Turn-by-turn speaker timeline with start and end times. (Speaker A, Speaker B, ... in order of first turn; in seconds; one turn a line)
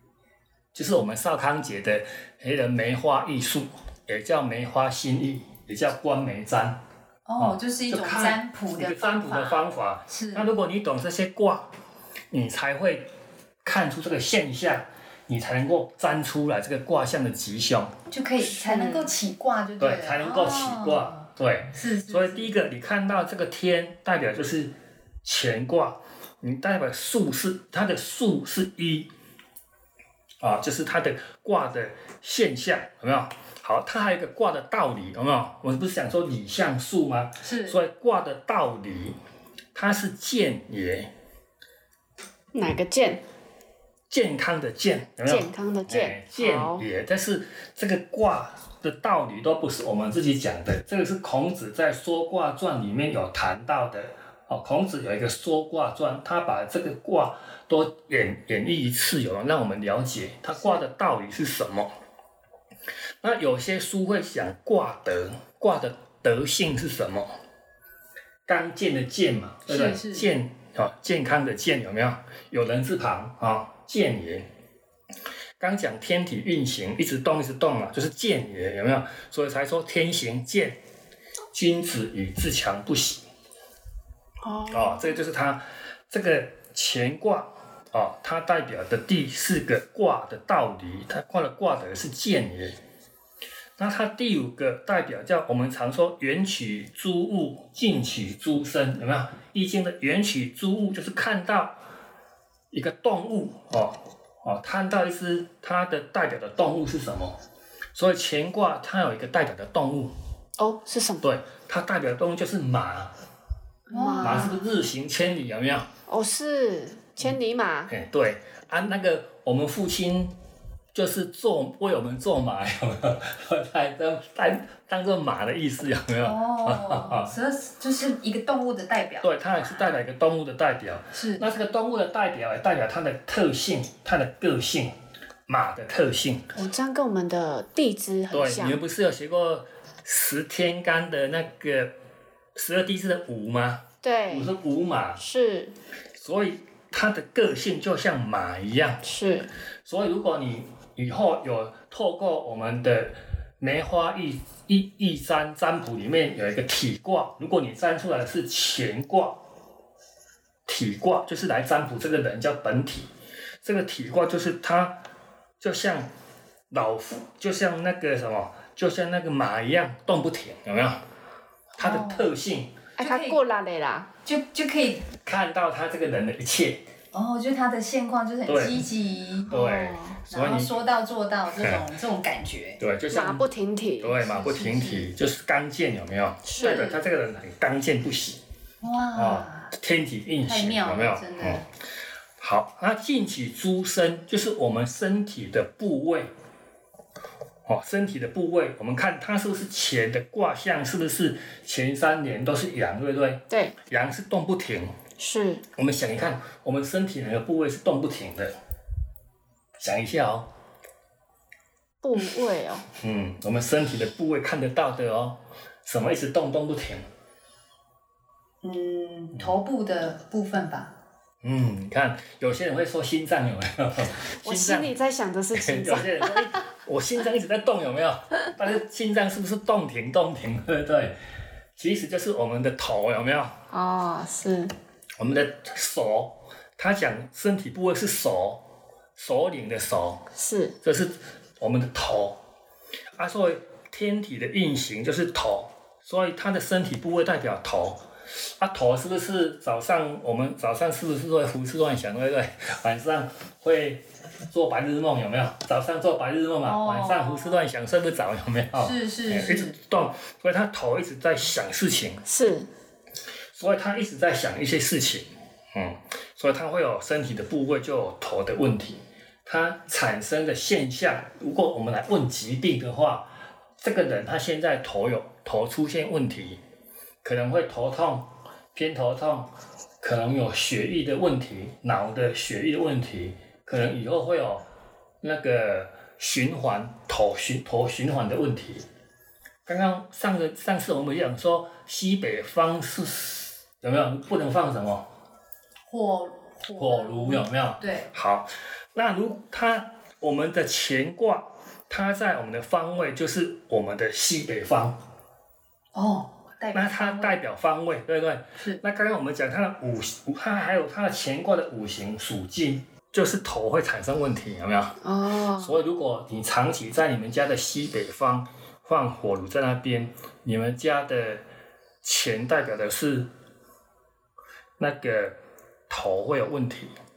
Speaker A: 0.7-6.8
Speaker B: 7.2-10.5
Speaker A: 7.4-11.7
Speaker A: 12.3-13.1
Speaker A: 13.6-17.9
Speaker B: 18.1-22.5
Speaker C: 18.4-19.1
Speaker A: 19.8-29.1
Speaker A: 30.4-39.2
Speaker B: 37.4-37.8
Speaker A: 39.7-41.1
Speaker C: 42.5-43.2
Speaker A: 44.1-61.9
Speaker C: 45.2-46.8
Speaker A: 63.2-67.4
Speaker A: 68.5-74.5
Speaker B: 69.7-70.3
Speaker A: 75.6-80.8
Speaker A: 81.5-83.2
Speaker C: 84.4-85.2
Speaker A: 84.7-92.8
Speaker A: 93.8-101.8
Speaker A: 102.7-107.4
Speaker A: 107.9-110.1
Speaker C: 110.6-111.2
Speaker A: 111.2-113.1
Speaker B: 113.9-114.6
Speaker C: 113.9-114.5
Speaker A: 114.2-115.9
Speaker C: 116.1-117.9
Speaker A: 117.9-120.3
Speaker A: 120.9-127.3
Speaker B: 126.2-129.3
Speaker A: 129.2-134.9
Speaker B: 131.1-131.4
Speaker A: 135.5-136.4
Speaker C: 136.5-138.8
Speaker A: 138.3-141.9
Speaker A: 142.6-145.2
Speaker C: 144.0-144.5
Speaker C: 145.2-145.7
Speaker A: 146.2-149.0
Speaker C: 149.0-149.5
Speaker A: 149.8-159.4
Speaker A: 160.7-163.1
Speaker A: 163.6-165.0
Speaker A: 165.6-166.1
Speaker A: 166.7-171.0
Speaker A: 171.8-172.7
Speaker B: 171.8-172.3
Speaker B: 173.0-173.4
Speaker C: 173.0-174.1
Speaker B: 174.2-175.1
Speaker A: 175.2-176.8
Speaker B: 177.1-179.6
Speaker A: 178.4-178.8
Speaker A: 179.5-180.7
Speaker C: 179.5-180.2
Speaker B: 180.3-182.8
Speaker A: 181.6-181.8
Speaker A: 182.8-183.4
Speaker C: 183.1-184.2
Speaker A: 184.0-188.4
Speaker B: 184.2-185.1
Speaker C: 186.4-186.8
Speaker B: 186.6-187.1
Speaker B: 188.8-189.7
Speaker A: 189.1-191.6
Speaker B: 190.4-191.6
Speaker A: 192.4-196.3
Speaker A: 197.7-204.9
Speaker C: 203.5-203.8
Speaker C: 205.2-205.6
Speaker A: 205.8-208.5
Speaker A: 209.8-210.5
Speaker C: 212.0-212.8
Speaker A: 213.0-217.1
Speaker B: 218.6-220.9
Speaker A: 221.4-224.9
Speaker C: 224.4-226.4
Speaker A: 225.5-231.2
Speaker A: 231.8-233.6
Speaker C: 233.7-234.7
Speaker A: 235.2-238.6
Speaker A: 239.2-240.2
Speaker C: 240.3-240.7
Speaker A: 240.8-242.4
Speaker A: 243.2-262.2
Speaker B: 256.6-257.6
Speaker B: 258.8-259.8
Speaker C: 262.2-262.7
Speaker A: 263.5-276.6
Speaker A: 277.2-279.5
Speaker A: 280.0-284.6
Speaker A: 285.2-288.9
Speaker A: 289.6-295.1
Speaker B: 295.9-298.1
Speaker A: 296.7-305.0
Speaker B: 305.9-307.4
Speaker A: 306.7-315.0
Speaker C: 315.0-315.8
Speaker A: 315.6-321.4
Speaker A: 322.0-323.3
Speaker A: 324.8-325.4
Speaker A: 325.9-326.9